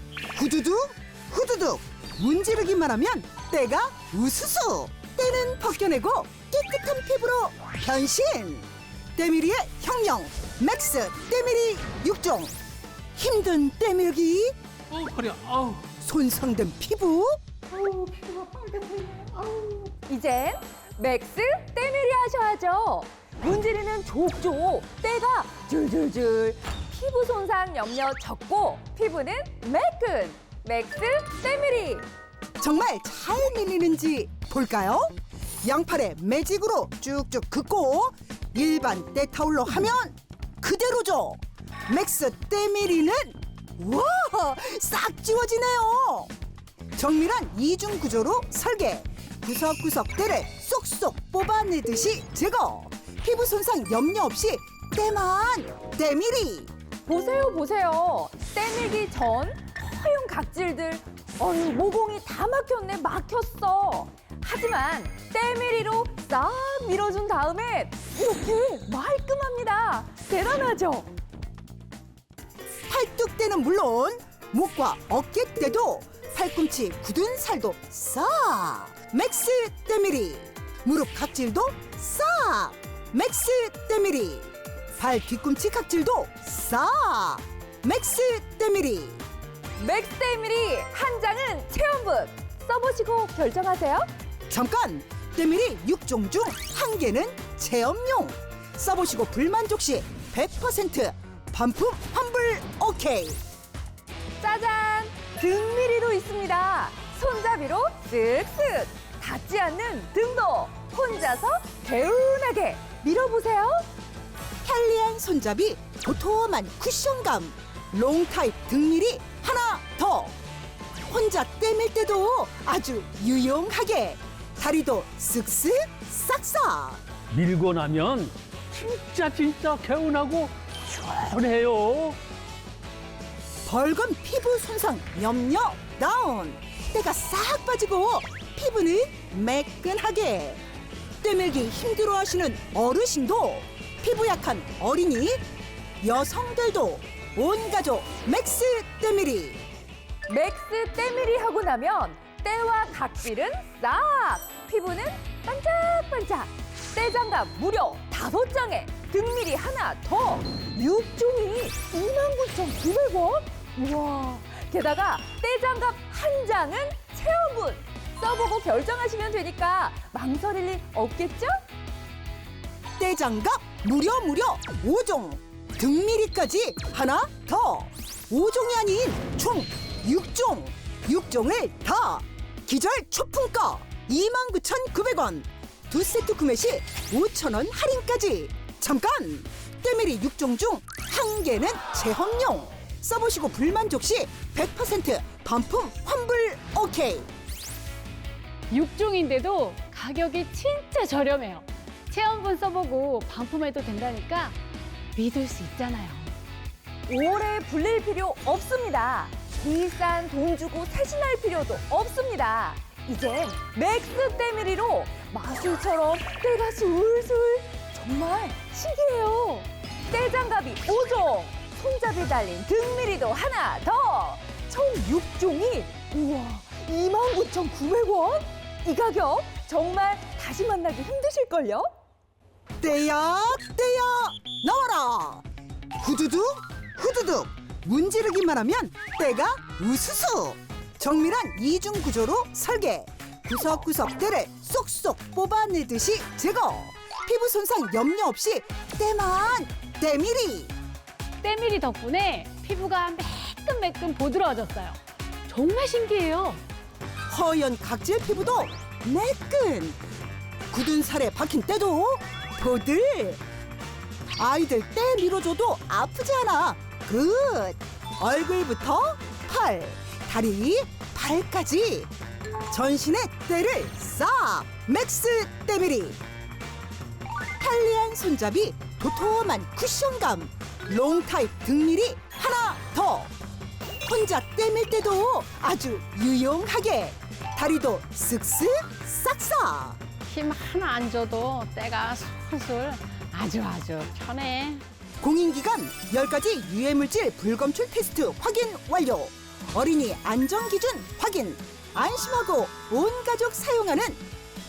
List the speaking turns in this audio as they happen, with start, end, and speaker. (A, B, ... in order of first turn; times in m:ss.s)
0:00.3-0:12.5 A
0:13.1-0:14.5 A
0:15.0-0:15.7 B
0:15.8-0:17.4 A
0:19.2-0:32.1 C
0:32.6-0:46.3 A
0:46.9-0:56.7 A
0:57.0-1:11.1 C
1:12.9-1:29.2 A
1:29.8-1:34.1 C
1:34.5-1:43.4 A
1:44.4-1:53.9 C
1:54.6-2:00.4 A
2:01.0-2:07.0 A
2:07.3-2:12.2 B
2:13.6-2:20.6 A
2:21.2-2:25.4 A
2:26.0-2:29.6 A
2:30.3-2:51.6 C
2:53.0-3:17.3 A
3:18.7-3:24.6 D
3:25.1-3:26.3 D
3:27.1-3:51.9 C
3:52.8-3:55.4 A
3:56.0-4:10.7 A
4:11.4-4:16.6 D
4:17.3-4:20.0 A
4:20.7-4:23.4 A
4:24.4-4:32.1 A
4:32.7-4:36.2 A
4:37.6-4:43.3 A
4:44.0-4:50.0 A
4:50.3-4:54.9 D
4:55.2-5:04.2 A